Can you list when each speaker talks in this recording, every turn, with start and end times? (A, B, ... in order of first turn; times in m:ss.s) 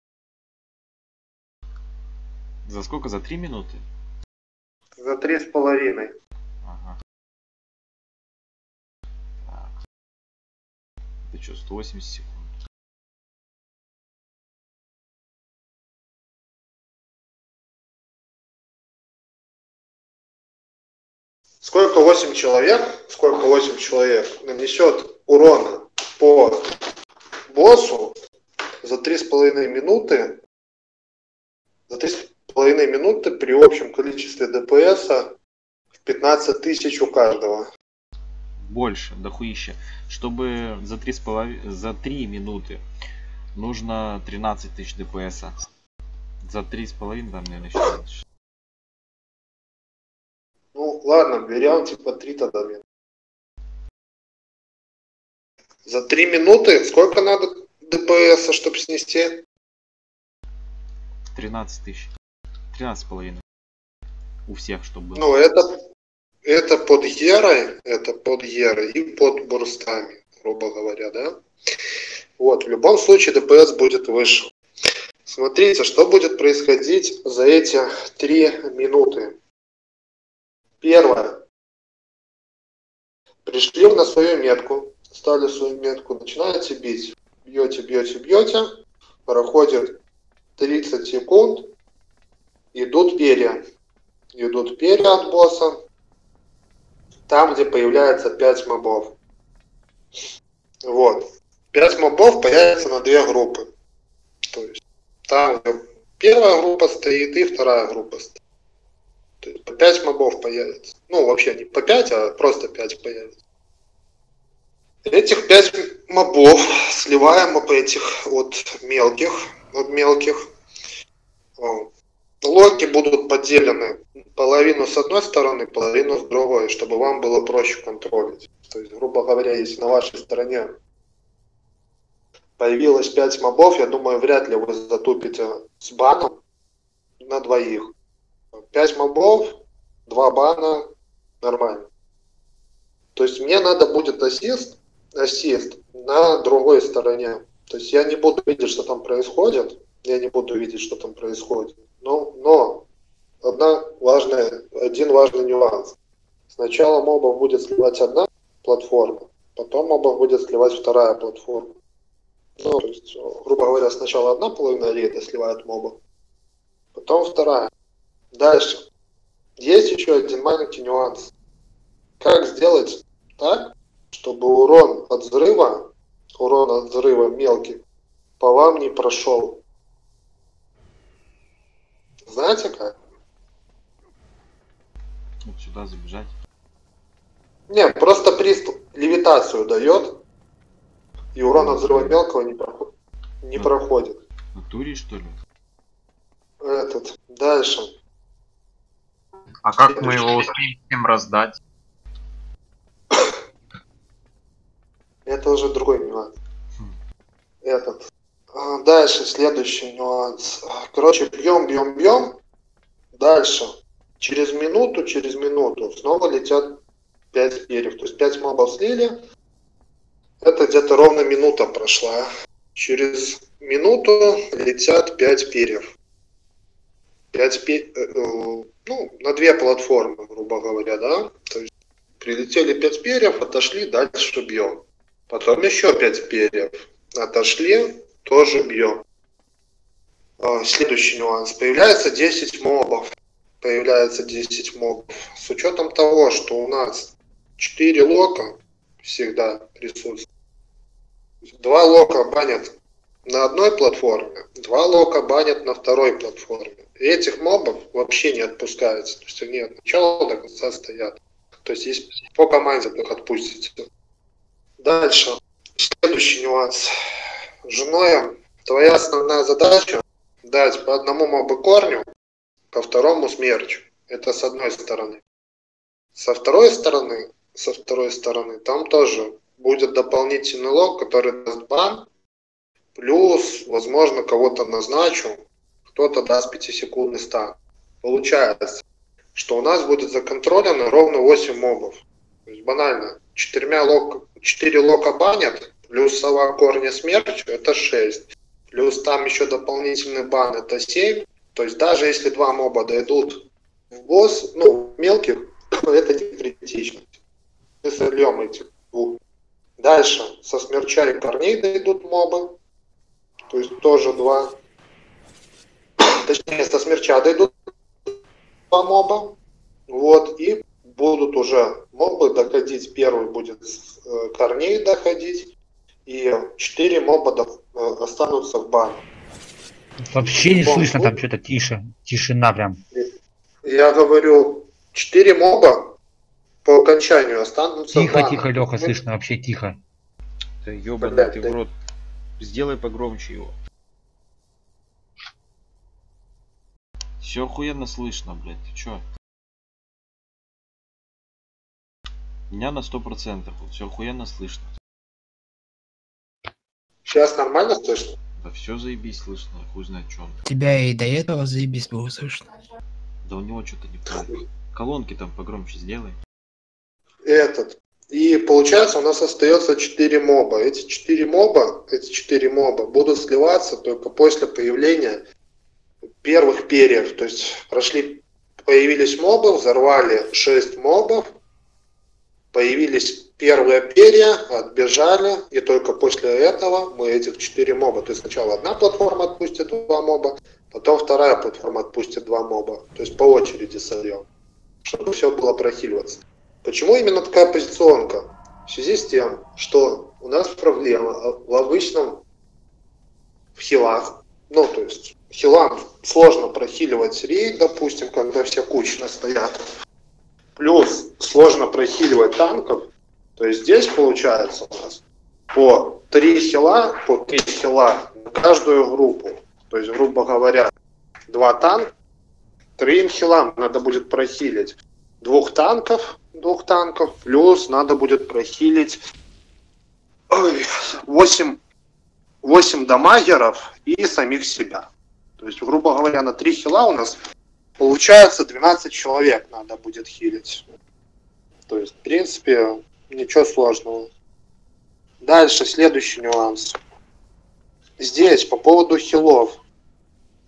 0:02.6-0:03.8 A
0:05.0-0:06.1 B
0:06.6-0:07.0 A
0:09.4-0:09.8 A
0:11.2-0:12.6 A
0:21.6-0:26.7 B
0:27.5-0:28.2 B
0:28.8-0:30.4 B
0:31.9-0:35.3 B
0:36.0-0:37.7 B
0:38.6-0:42.8 A
0:43.5-0:45.6 A
0:46.4-0:48.2 A
0:50.7-0:52.8 B
0:55.8-0:59.4 B
1:01.3-1:02.1 A
1:02.7-1:03.4 A
1:04.5-1:05.3 A
1:05.2-1:05.6 B
1:06.4-1:11.4 B
1:12.4-1:14.5 B
1:15.2-1:19.4 B
1:20.8-1:21.4 B
1:23.4-1:28.7 B
1:29.2-1:30.0 B
1:30.6-1:31.7 B
1:32.7-1:33.6 B
1:34.3-1:35.8 B
1:37.3-1:39.1 B
1:40.8-1:43.7 B
1:44.5-1:44.8 B
1:45.3-1:48.4 B
1:49.4-1:53.3 B
1:55.0-2:00.4 B
2:01.6-2:01.9 B
2:02.4-2:10.7 B
2:12.6-2:16.4 B
2:17.2-2:17.9 B
2:18.7-2:20.8 B
2:21.4-2:21.9 B
2:23.1-2:32.8 B
2:33.4-2:35.9 B
2:36.5-2:41.7 B
2:42.6-2:46.0 B
2:46.9-2:47.7 B
2:48.3-2:48.8 B
2:49.6-2:51.3 B
2:52.2-2:57.8 B
2:58.4-2:59.6 B
3:02.3-3:03.0 B
3:05.4-3:06.4 A
3:07.7-3:10.2 B
3:11.4-3:12.9 B
3:11.5-3:12.2 A
3:13.4-3:14.2 B
3:14.5-3:15.4 A
3:16.6-3:17.9 B
3:19.6-3:21.6 C
3:19.8-3:20.5 B
3:25.2-3:26.3 B
3:27.6-3:28.0 B
3:28.5-3:32.4 B
3:33.1-3:36.8 B
3:37.3-3:39.2 B
3:40.4-3:45.9 B
3:47.3-3:51.6 B
3:52.2-3:59.0 B
4:00.4-4:03.1 B
4:03.6-4:10.2 B
4:11.6-4:12.7 B
4:13.2-4:23.9 B
4:24.8-4:26.9 B
4:27.7-4:32.0 B
4:32.7-4:35.2 B
4:36.2-4:42.1 B
4:43.0-4:45.4 B
4:45.9-4:48.8 B
4:49.3-5:03.4 B
5:04.0-5:07.0 B
5:07.8-5:09.2 B
5:09.8-5:12.6 B
5:13.5-5:14.6 B
5:16.0-5:17.5 B
5:18.7-5:19.4 B
5:19.9-5:25.5 B
5:26.0-5:29.0 B
5:30.0-5:32.8 D
5:30.2-5:31.2 B
5:33.6-5:35.9 B
5:36.6-5:38.9 B
5:37.9-5:39.8 D
5:40.6-5:41.7 A
5:41.0-5:41.6 B
5:42.4-5:43.6 A
5:47.2-5:49.0 A
5:52.5-5:54.7 A
5:57.0-5:58.1 B
5:58.4-6:00.4 A
6:00.4-6:02.5 E
6:03.2-6:06.2 A
6:07.2-6:15.2 B
6:16.2-6:21.3 B
6:22.5-6:34.2 B
6:34.8-6:42.2 B
6:43.5-6:49.5 B
6:50.6-6:55.0 B
6:55.5-7:00.7 B
7:01.3-7:01.9 B
7:02.8-7:09.0 B
7:10.3-7:11.6 B
7:12.4-7:17.2 B
7:17.8-7:20.6 B
7:21.7-7:24.1 B
7:25.2-7:26.8 B
7:28.0-7:29.6 B